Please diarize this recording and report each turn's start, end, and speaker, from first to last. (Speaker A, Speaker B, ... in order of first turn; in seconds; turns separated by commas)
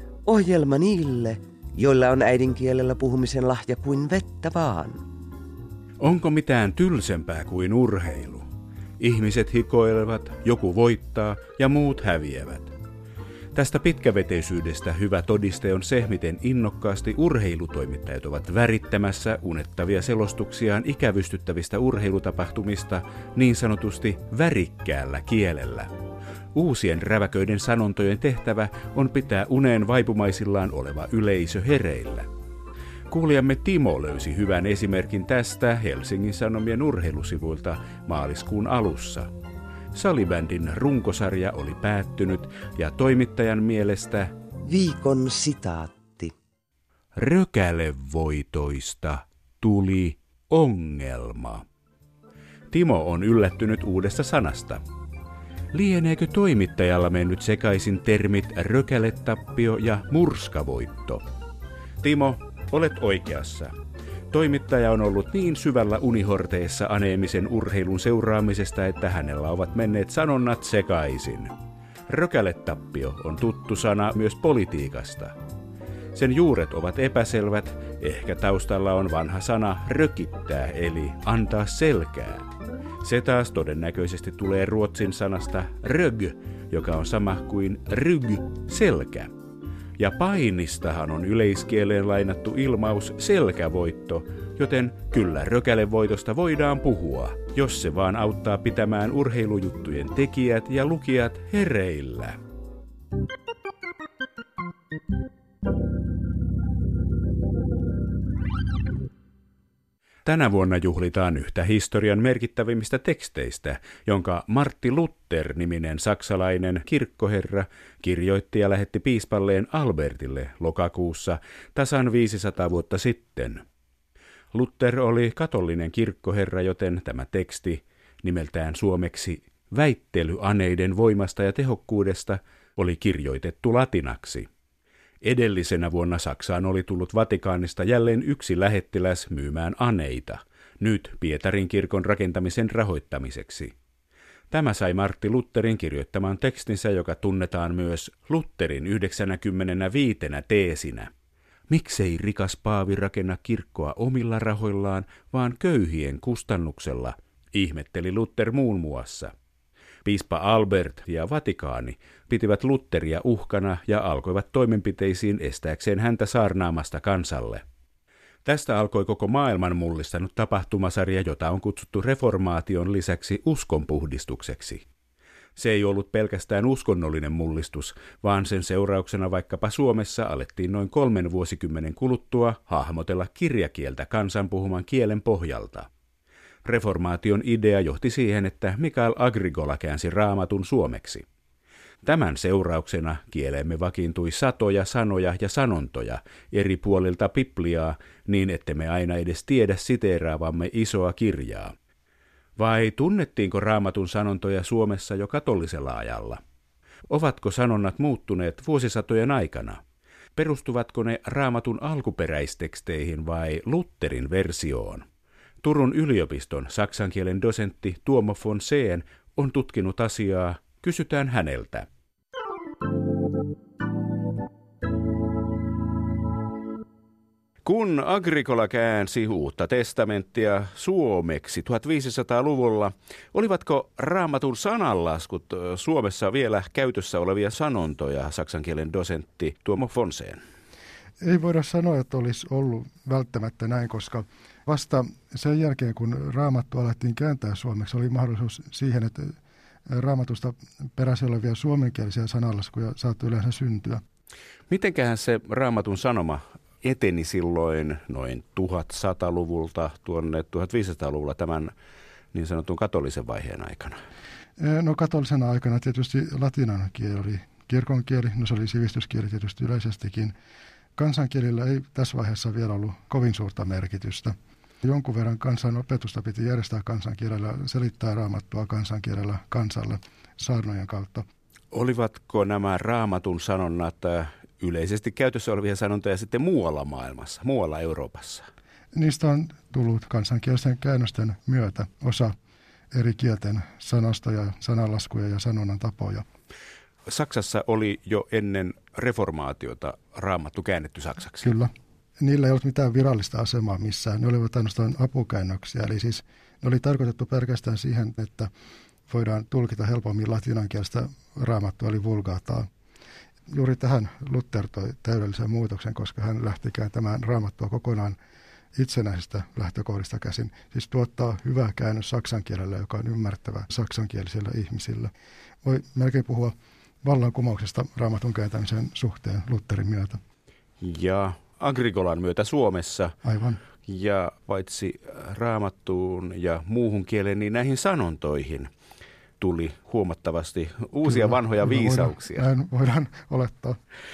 Speaker A: 0.2-5.0, Speaker B: 6.0-8.5, Speaker B: 9.0-12.7, Speaker B: 13.5-25.9, Speaker B: 26.5-32.3, Speaker B: 33.1-39.3, Speaker B: 39.9-44.3, Speaker A: 44.7-46.3, Speaker B: 47.1-51.6, Speaker B: 52.7-54.8, Speaker B: 55.7-61.2, Speaker B: 62.0-63.8, Speaker B: 64.3-71.5, Speaker B: 72.1-75.3, Speaker B: 76.1-82.5, Speaker B: 83.0-89.3, Speaker B: 90.0-102.4, Speaker B: 110.2-123.6, Speaker B: 124.5-134.5, Speaker B: 135.2-143.8, Speaker B: 144.5-151.1, Speaker B: 151.7-159.3, Speaker B: 160.1-167.6, Speaker B: 168.4-174.8, Speaker B: 175.6-185.9, Speaker B: 186.7-191.2, Speaker B: 192.0-201.7, Speaker B: 202.6-206.4, Speaker B: 207.1-209.8, Speaker B: 210.4-215.1, Speaker B: 215.6-221.9, Speaker B: 227.7-240.4, Speaker C: 241.2-249.4, Speaker C: 249.9-254.0, Speaker B: 254.7-261.7, Speaker B: 262.3-264.0, Speaker C: 264.6-270.3, Speaker C: 271.0-281.2, Speaker B: 281.7-288.5, Speaker C: 288.9-292.4, Speaker C: 292.9-296.3, Speaker B: 297.1-301.5, Speaker C: 301.4-308.5, Speaker C: 309.1-312.7, Speaker C: 313.5-318.2, Speaker C: 318.8-325.1, Speaker C: 325.6-330.2, Speaker B: 330.8-333.1, Speaker C: 333.2-333.6, Speaker B: 333.9-338.7, Speaker B: 339.4-342.5, Speaker C: 341.1-343.8